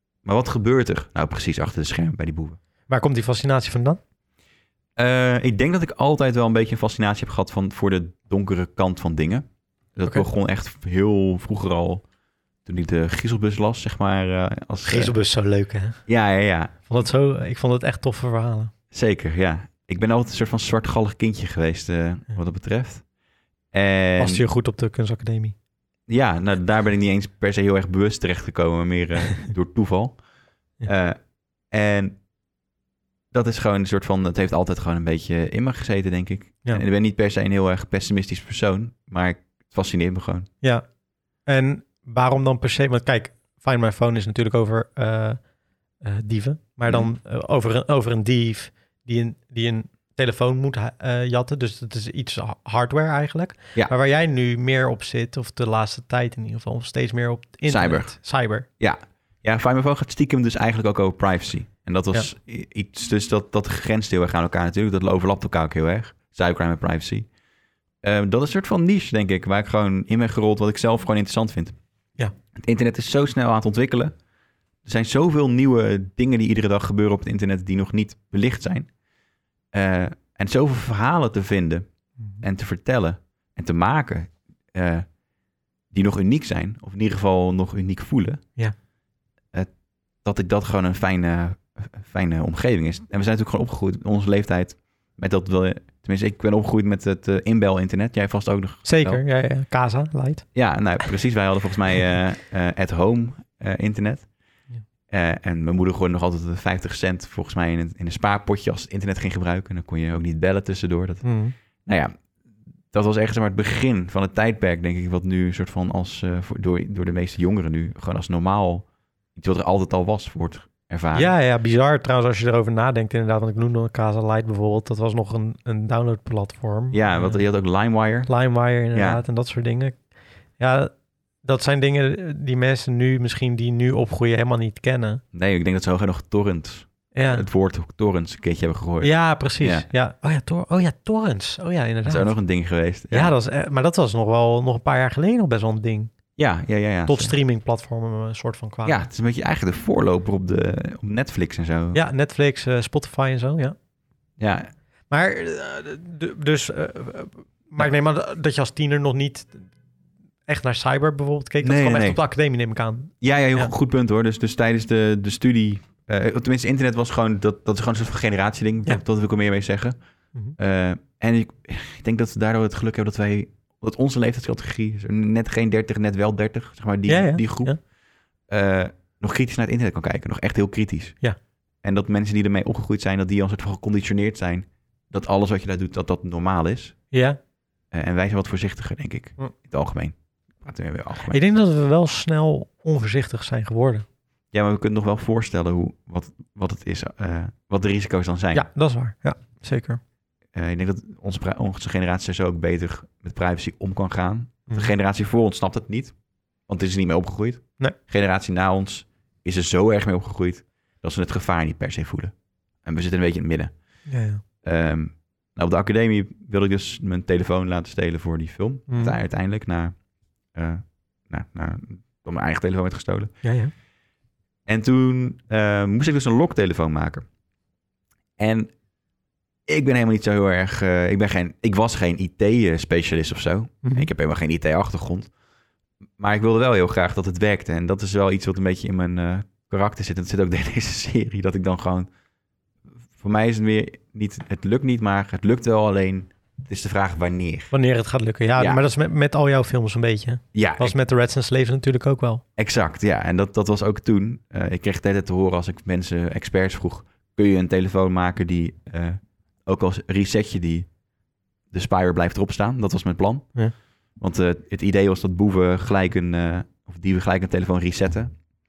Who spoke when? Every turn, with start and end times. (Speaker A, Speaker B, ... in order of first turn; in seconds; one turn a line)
Speaker A: 0.2-2.6
Speaker B: 2.9-4.0
Speaker A: 5.0-12.0
Speaker A: 12.6-15.1
Speaker B: 14.9-16.0
Speaker A: 16.1-16.7
Speaker B: 16.9-18.7
Speaker A: 18.9-23.0
Speaker A: 23.7-24.4
Speaker B: 24.2-25.5
Speaker A: 26.1-30.2
Speaker A: 30.8-31.2
Speaker A: 31.7-32.2
Speaker A: 33.3-40.5
Speaker B: 41.5-45.4
Speaker B: 46.0-58.6
Speaker A: 57.7-58.2
Speaker A: 58.8-67.3
Speaker A: 68.0-71.8
Speaker A: 72.5-74.2
Speaker A: 74.8-78.9
Speaker A: 79.7-81.8
Speaker A: 82.4-85.1
Speaker A: 85.9-88.4
Speaker A: 90.2-99.2
Speaker B: 98.8-100.5
Speaker A: 100.5-104.3
Speaker A: 105.1-111.2
Speaker B: 111.2-111.5
Speaker A: 111.8-112.2
Speaker A: 112.9-121.3
Speaker B: 121.1-127.4
Speaker A: 126.9-128.3
Speaker B: 128.3-130.0
Speaker A: 128.9-129.2
Speaker B: 130.6-130.9
Speaker B: 131.4-135.2
Speaker A: 135.3-139.8
Speaker B: 137.1-137.4
Speaker B: 139.0-142.3
Speaker A: 142.1-143.3
Speaker B: 143.1-146.1
Speaker A: 146.4-147.3
Speaker B: 147.1-149.0
Speaker A: 148.8-152.0
Speaker B: 151.9-153.8
Speaker A: 154.4-154.7
Speaker B: 155.1-159.7
Speaker B: 160.5-163.7
Speaker A: 161.6-162.2
Speaker A: 163.2-169.9
Speaker A: 170.6-177.8
Speaker B: 177.1-177.8
Speaker A: 178.5-181.2
Speaker A: 181.8-186.9
Speaker B: 187.1-187.4
Speaker A: 187.9-191.4
Speaker B: 191.2-194.1
Speaker A: 194.5-198.7
Speaker B: 198.5-200.0
Speaker A: 200.5-206.1
Speaker A: 206.7-212.3
Speaker A: 212.8-213.7
Speaker B: 214.1-214.4
Speaker A: 214.6-219.9
Speaker B: 218.9-219.2
Speaker A: 220.5-223.3
Speaker B: 223.4-223.7
Speaker A: 224.7-227.2
Speaker A: 228.4-228.7
Speaker A: 229.7-235.3
Speaker B: 233.8-234.1
Speaker A: 236.2-242.1
Speaker A: 243.2-247.7
Speaker B: 247.7-252.4
Speaker A: 248.6-248.8
Speaker A: 250.5-250.9
Speaker A: 252.6-260.9
Speaker A: 261.7-263.5
Speaker A: 264.2-268.3